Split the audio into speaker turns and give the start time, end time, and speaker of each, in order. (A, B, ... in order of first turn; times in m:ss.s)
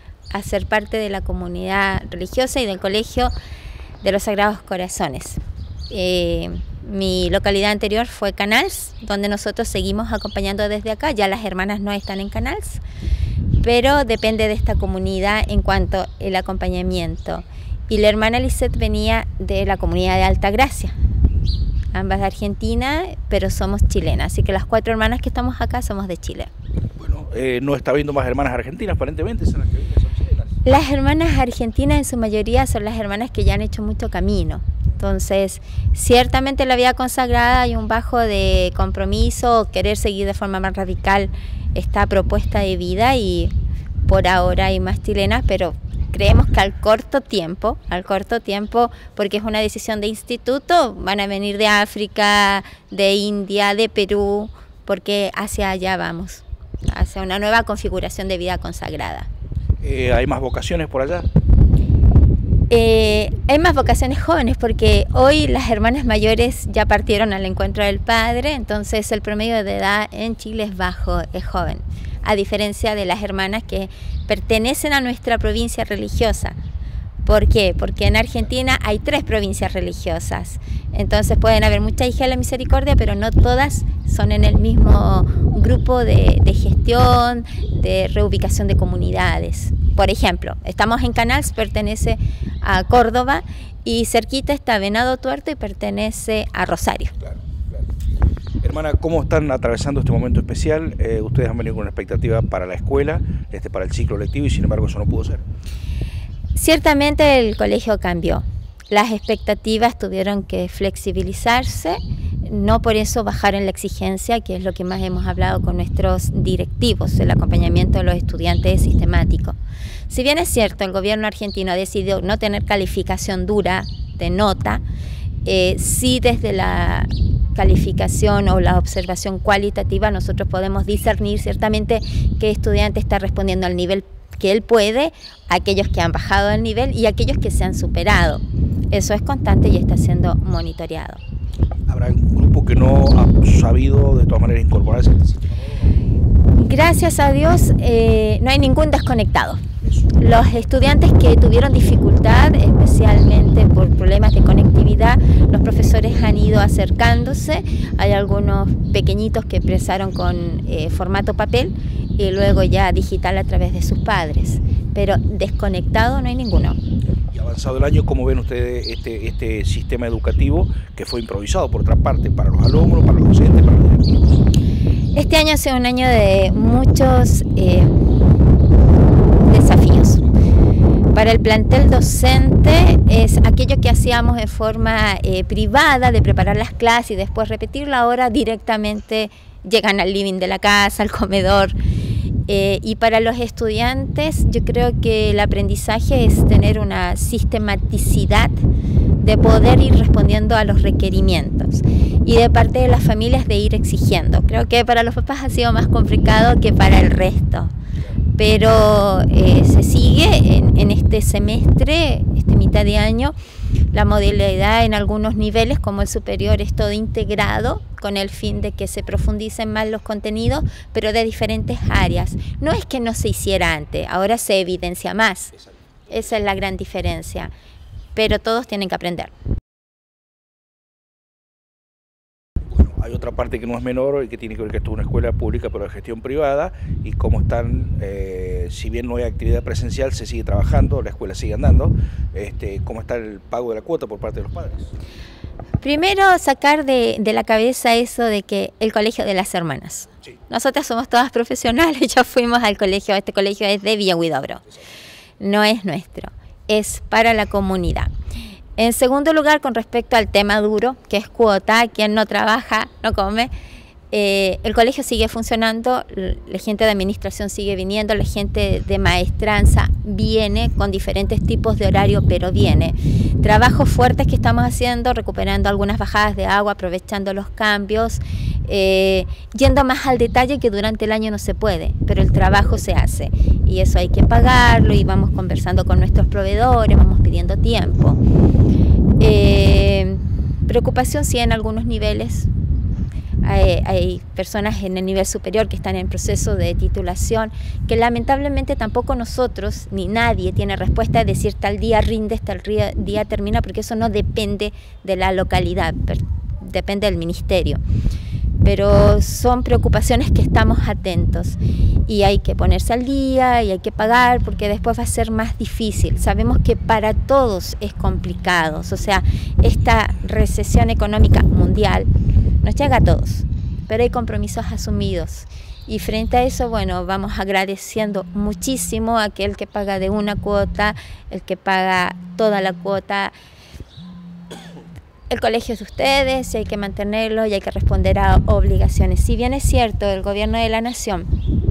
0:00.3-0:03.3 A
0:04.0-0:12.8 A
0:13.6-0:20.9 A
0:21.9-0:26.5 A
0:27.0-0:30.4 B
0:30.6-0:43.5 A
0:44.1-0:59.3 A
0:59.8-1:01.3 B
1:02.7-1:16.6 A
1:17.2-1:37.1 A
1:38.6-1:45.4 B
1:46.6-1:59.6 A
2:00.1-2:04.8 A
2:05.4-2:21.2 A
2:21.9-2:25.5 B
2:26.5-2:29.6 A
2:30.2-2:46.8 A
2:47.3-2:54.4 B
2:55.2-2:57.9 A
2:59.3-3:00.2 A
3:01.1-3:11.7 A
3:12.5-3:18.6 A
3:19.2-3:27.7 A
3:28.4-3:33.3 A
3:33.9-3:45.5 A
3:46.1-3:47.5 A
3:48.1-3:49.3 A
3:52.7-4:04.9 B
4:05.8-4:14.6 A
4:15.4-4:18.1 A
4:18.8-4:23.5 A
4:24.1-4:48.2 A
4:49.2-4:52.5 A
4:53.4-5:07.8 A
5:08.6-5:22.1 A
5:22.6-5:33.3 A
5:35.3-5:41.3 A